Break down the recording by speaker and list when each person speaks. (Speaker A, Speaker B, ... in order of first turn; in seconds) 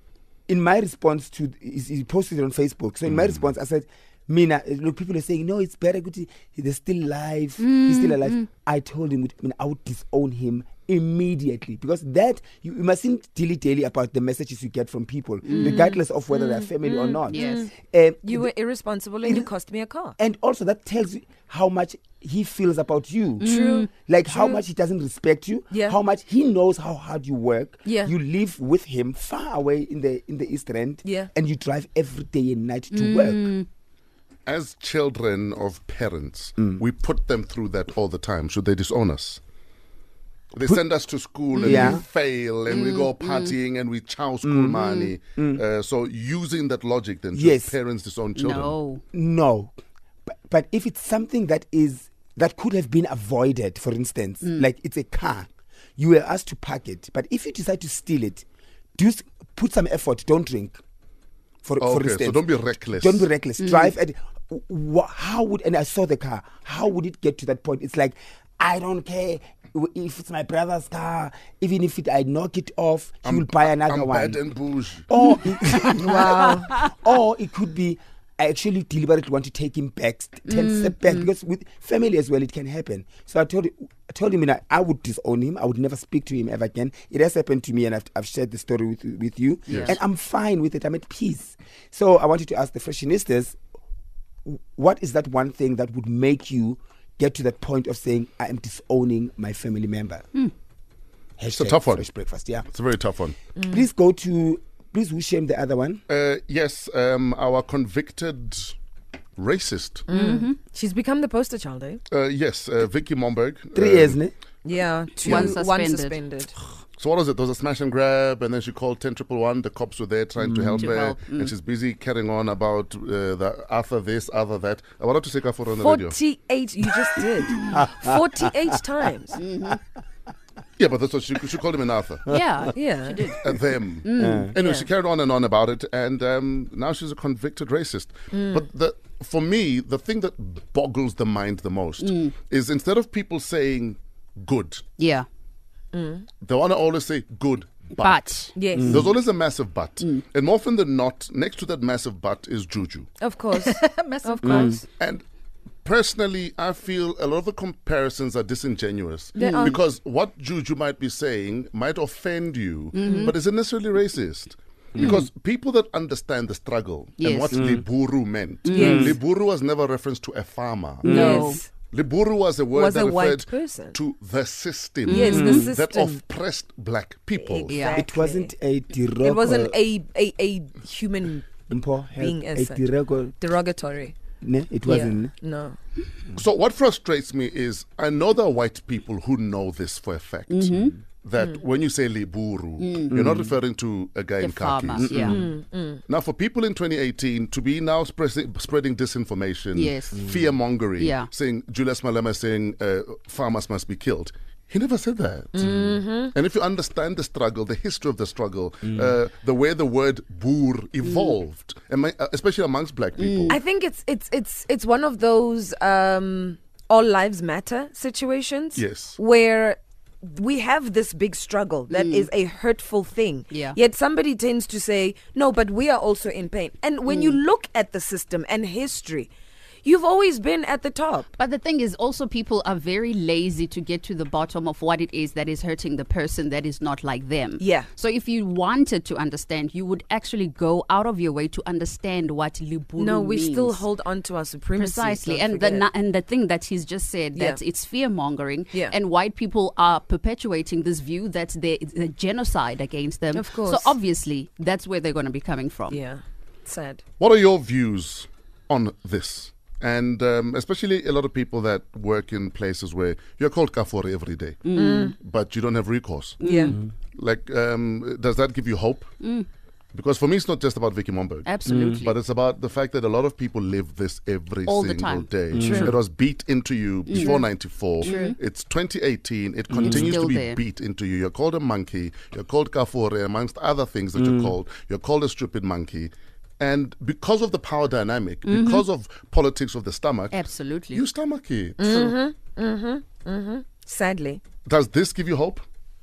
Speaker A: 0.5-18.5, 19.2-19.5, 20.2-33.5, 41.6-42.0, 44.4-44.8, 45.4-45.6, 47.3-47.8, 49.1-49.7, 50.3-58.5, 59.0-60.8, 61.6-74.4, 75.1-93.6, 94.5-100.2, 101.4-102.7, 103.7-106.0, 113.8-114.3, 120.4-121.0, 127.7-128.1, 134.2-134.5, 148.7-149.1, 154.4-154.8, 164.9-165.2, 167.5-167.8, 168.8-169.2, 171.1-171.6, 175.3-175.7, 177.9-179.8, 181.7-183.3, 184.4-185.3, 195.0-195.4, 208.8-209.1, 271.6-272.0, 275.5-276.0, 279.7-280.2, 284.2-284.5
Speaker B: 3.1-3.4, 34.5-39.4, 40.5-48.8, 61.8-63.3, 73.2-75.1, 101.5-102.1, 102.7-103.4, 106.1-108.8, 109.4-110.1, 112.1-114.2, 115.2-115.6, 117.0-126.2, 130.8-132.3, 133.4-144.8, 146.4-153.1, 155.0-155.2, 155.8-177.8, 186.4-195.4, 196.1-213.6, 218.8-219.2, 257.2-266.4, 267.1-269.1, 269.9-292.1, 294.6-295.6
Speaker C: 7.6-8.4, 15.4-17.6, 23.4-23.9, 32.9-33.7, 41.5-42.0, 42.7-43.5, 44.8-45.1, 48.4-49.0, 63.6-63.9, 75.3-76.7, 80.5-81.3, 89.7-90.0, 110.1-110.5, 115.2-116.2, 120.6-121.5, 129.4-129.8, 132.3-133.5, 134.0-134.5, 142.0-142.3, 145.0-145.3, 148.0-148.5, 153.6-154.8, 159.4-159.8, 162.9-163.3, 165.0-165.2, 167.2-167.6, 168.7-169.2, 171.0-171.6, 175.1-175.7, 177.7-178.0, 190.5-190.9, 192.8-193.3, 194.4-195.4, 199.7-200.2, 201.0-201.3, 211.0-211.4, 213.2-213.6, 221.9-222.3, 223.5-223.8, 227.1-227.4, 231.4-243.8, 244.8-256.0, 264.6-265.1, 266.4-266.8, 269.2-269.5, 271.4-272.1, 274.7-275.8, 277.1-277.4, 278.0-278.4, 279.8-280.6, 288.4-288.8, 290.3-291.0
Speaker D: 15.6-15.9, 17.1-17.7, 18.2-20.2, 23.4-24.6, 25.7-26.0, 27.9-28.1, 31.0-31.3, 75.9-76.7, 103.6-103.8, 110.1-112.0, 114.7-116.5, 125.8-129.4, 132.7-133.2, 134.6-134.9, 138.3-138.6, 145.9-146.3, 148.6-149.1, 153.2-154.8, 159.3-159.8, 163.1-163.3, 168.7-169.1, 171.0-171.7, 172.7-174.0, 175.1-176.2, 177.4-178.5, 179.2-181.5, 182.2-182.9, 183.4-184.2, 184.9-185.8, 195.2-196.0, 205.5-206.3, 213.5-229.3, 229.8-231.3, 237.6-237.9, 243.0-245.9, 247.3-247.6, 253.3-254.0, 255.9-257.0, 264.7-265.1, 266.4-266.8, 275.5-276.0, 278.1-278.3, 291.8-294.4